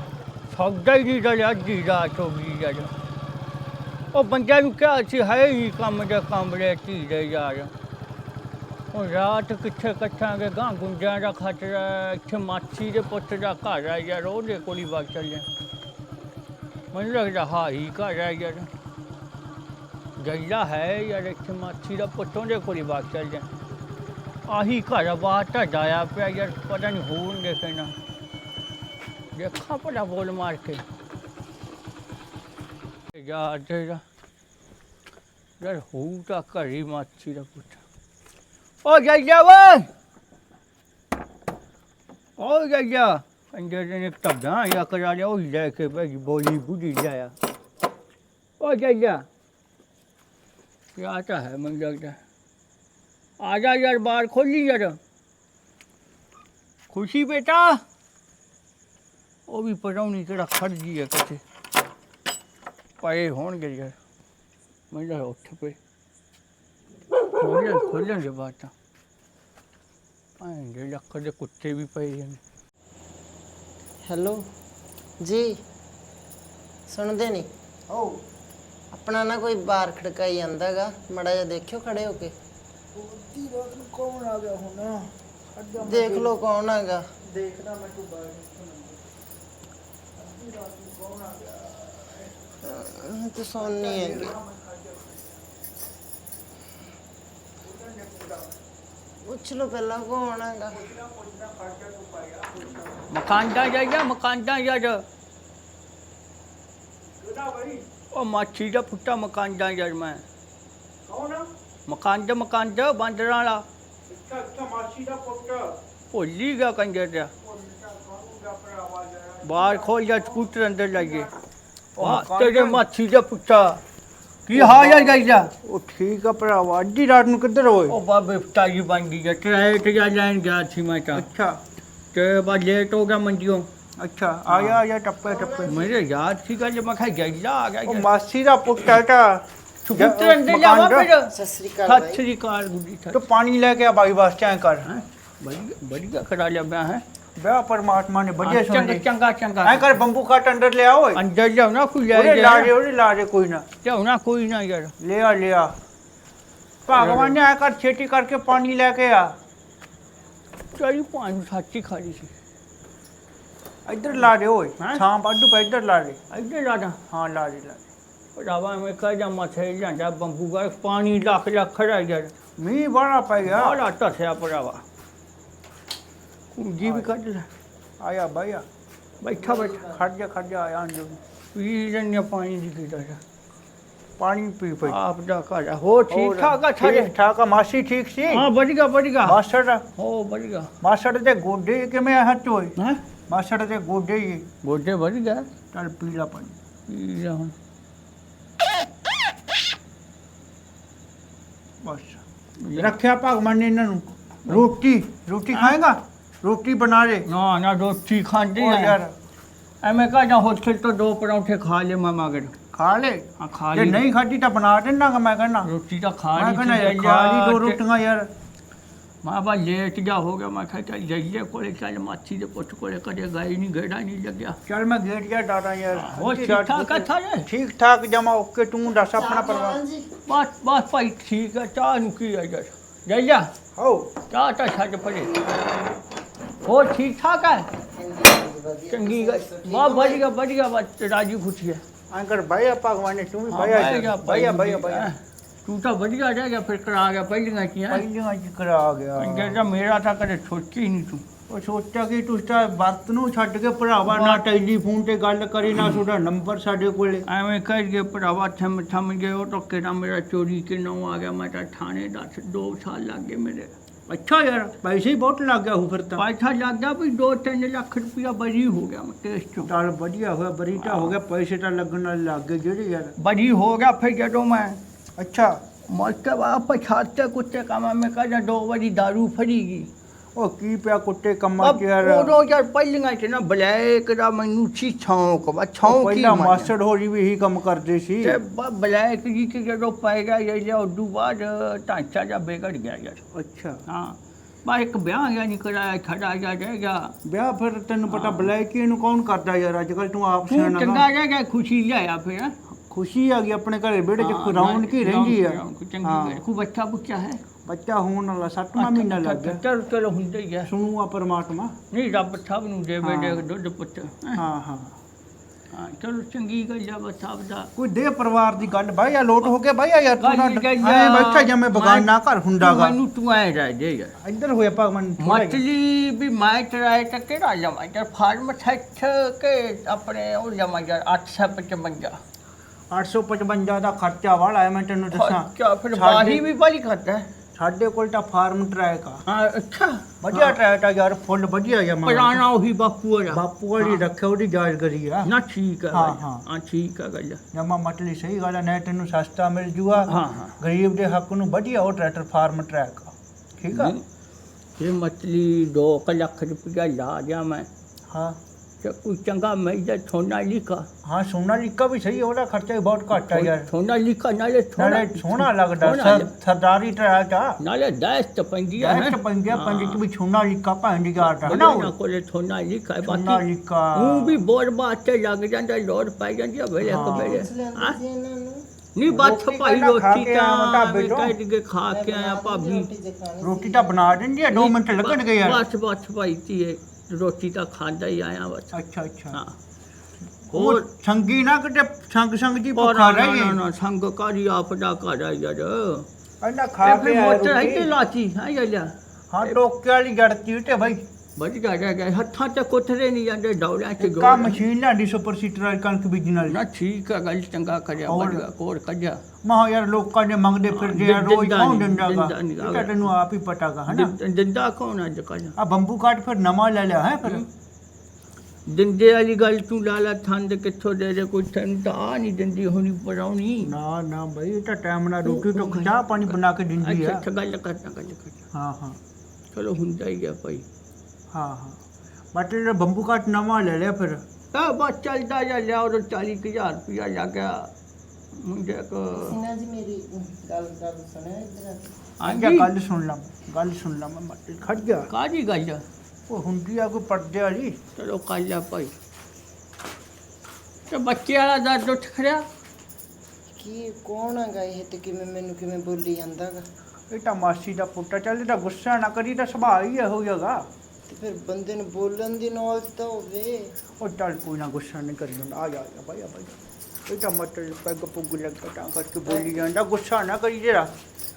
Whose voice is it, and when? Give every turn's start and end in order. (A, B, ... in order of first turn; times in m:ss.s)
0:00.5-0:02.9 A
0:04.1-0:07.7 A
0:08.9-0:15.5 A
0:16.9-0:18.7 A
0:20.2-0:23.5 A
0:24.5-0:27.9 A
0:29.4-0:30.8 A
0:33.1-0:34.0 A
0:35.6-0:37.8 A
0:38.8-0:39.9 A
0:42.4-0:47.4 A
0:48.6-0:49.3 A
0:51.0-0:52.2 A
0:53.4-0:55.0 A
0:56.9-0:57.8 A
0:59.5-1:01.4 A
1:03.0-1:04.0 A
1:04.9-1:05.8 A
1:07.3-1:08.7 A
1:10.4-1:12.4 A
1:14.1-1:14.4 B
1:15.2-1:15.5 B
1:16.9-1:17.5 B
1:17.9-1:18.2 C
1:18.9-1:22.3 B
1:23.0-1:26.4 C
1:25.8-1:27.0 B
1:27.2-1:29.0 C
1:30.2-1:32.5 C
1:32.6-1:34.3 B
1:33.6-1:35.2 C
1:37.6-1:38.6 C
1:39.2-1:40.8 B
1:40.7-1:43.0 C
1:43.1-1:45.0 A
1:47.2-1:47.9 C
1:48.1-1:50.2 A
1:51.1-1:51.5 C
1:51.9-1:53.6 A
1:54.1-1:55.7 C
1:56.1-1:57.3 A
1:57.4-2:01.3 C
1:59.4-2:01.3 A
2:02.0-2:02.8 C
2:02.0-2:03.8 A
2:04.5-2:05.5 A
2:04.5-2:08.0 C
2:07.9-2:11.3 A
2:11.1-2:11.6 C
2:12.1-2:13.7 A
2:14.0-2:15.9 C
2:14.5-2:14.8 A
2:15.2-2:15.9 B
2:15.6-2:18.1 A
2:17.9-2:21.1 C
2:19.8-2:21.3 A
2:21.3-2:22.2 B
2:21.8-2:23.2 A
2:23.1-2:24.9 C
2:24.8-2:27.0 A
2:27.4-2:29.1 C
2:28.4-2:30.0 A
2:29.6-2:31.2 C
2:31.2-2:32.7 A
2:32.1-2:33.7 C
2:33.8-2:34.9 A
2:35.0-2:35.7 C
2:36.9-2:39.3 C
2:37.0-2:37.4 A
2:40.8-2:42.3 A
2:43.9-2:46.2 C
2:46.3-2:47.0 A
2:47.1-2:47.9 C
2:48.4-2:52.3 A
2:52.6-2:53.8 C
2:53.5-2:54.8 A
2:56.5-2:57.5 A
2:56.8-2:57.1 C
2:58.0-2:58.7 C
2:59.2-3:00.0 A
2:59.4-3:01.2 C
3:01.5-3:03.2 A
3:04.2-3:05.0 C
3:04.8-3:07.1 A
3:06.1-3:08.5 C
3:08.3-3:09.4 A
3:09.2-3:09.8 C
3:10.0-3:10.7 A
3:10.8-3:12.8 C
3:12.8-3:13.0 A
3:13.3-3:14.5 C
3:14.6-3:15.5 A
3:15.7-3:16.6 C
3:16.9-3:17.5 A
3:21.8-3:22.2 C
3:22.6-3:23.0 A
3:22.8-3:27.3 C
3:27.3-3:29.0 A
3:28.6-3:29.1 C
3:29.8-3:32.5 A
3:32.7-3:35.7 C
3:33.4-3:34.0 A
3:35.6-3:37.8 A
3:36.4-3:38.3 C
3:39.2-3:44.6 A
3:44.7-3:49.8 C
3:45.9-3:47.5 A
3:49.0-3:50.1 B
3:50.3-3:53.5 A
3:53.8-3:54.1 C
3:54.3-3:55.5 A
3:55.4-3:55.8 B
3:56.6-3:57.7 A
3:57.9-4:00.2 B
3:58.9-4:01.8 A
4:02.1-4:05.1 C
4:03.5-4:08.0 A
4:07.9-4:09.6 C
4:09.2-4:11.2 A
4:11.5-4:17.3 C
4:14.1-4:14.4 A
4:17.3-4:23.7 A
4:24.1-4:26.3 C
4:26.2-4:29.7 A
4:29.6-4:33.1 C
4:30.8-4:31.2 A
4:33.2-4:34.8 A
4:35.2-4:35.6 C
4:35.9-4:39.9 A
4:40.4-4:42.4 C
4:41.6-4:46.7 A
4:45.8-4:48.4 C
4:48.2-4:53.2 A
4:53.3-4:53.8 C
4:53.9-4:57.1 A
4:57.2-5:01.1 C
4:58.1-4:58.5 A
5:00.5-5:02.6 A
5:02.7-5:06.4 C
5:04.2-5:07.4 A
5:07.6-5:09.6 C
5:08.8-5:10.7 A
5:10.7-5:11.8 C
5:11.9-5:14.4 A
5:13.0-5:13.5 C
5:14.4-5:15.0 C
5:15.7-5:17.7 A
5:17.8-5:23.0 C
5:20.2-5:22.1 A
5:22.6-5:24.2 A
5:24.2-5:25.6 C
5:25.2-5:32.2 A
5:32.9-5:36.4 C
5:35.1-5:37.3 A
5:37.6-5:39.2 C
5:39.3-5:40.6 A
5:40.2-5:42.4 C
5:42.0-5:44.0 A
5:43.3-5:45.3 C
5:45.2-5:47.4 A
5:45.9-5:46.4 C
5:47.5-5:54.0 C
5:50.1-5:50.5 A
5:53.7-5:54.0 A
5:54.8-5:57.7 A
5:58.1-5:58.4 C
5:58.8-6:00.9 A
6:01.0-6:03.7 C
6:03.1-6:06.3 A
6:04.8-6:07.6 C
6:07.6-6:10.0 A
6:08.8-6:11.9 C
6:11.2-6:13.4 A
6:13.0-6:14.4 C
6:13.9-6:18.0 A
6:16.8-6:17.5 C
6:17.2-6:18.6 B
6:19.0-6:22.9 A
6:19.1-6:21.4 C
6:21.8-6:24.1 B
6:23.4-6:25.6 C
6:24.5-6:28.8 A
6:28.7-6:29.4 C
6:30.5-6:33.6 C
6:30.5-6:30.9 A
6:32.8-6:36.1 A
6:36.4-6:38.0 C
6:36.8-6:38.9 A
6:39.3-6:41.0 C
6:41.4-6:44.6 A
6:44.0-6:46.6 C
6:46.5-6:49.2 A
6:48.0-6:48.5 C
6:49.4-6:54.1 C
6:50.7-6:53.1 A
6:53.9-6:55.6 A
6:55.6-6:57.5 C
6:58.7-7:03.7 A
7:03.6-7:07.2 C
7:05.2-7:08.4 A
7:08.5-7:09.0 C
7:09.5-7:10.6 A
7:11.3-7:11.8 C
7:12.3-7:14.2 C
7:14.5-7:17.7 A
7:18.3-7:19.4 A
7:19.1-7:22.1 B
7:22.2-7:22.7 A
7:22.2-7:25.1 C
7:25.1-7:25.8 A
7:26.3-7:27.8 C
7:28.0-7:28.9 A
7:30.9-7:32.4 A
7:33.6-7:36.6 B
7:37.1-7:40.6 C
7:41.1-7:43.7 B
7:44.0-7:50.9 C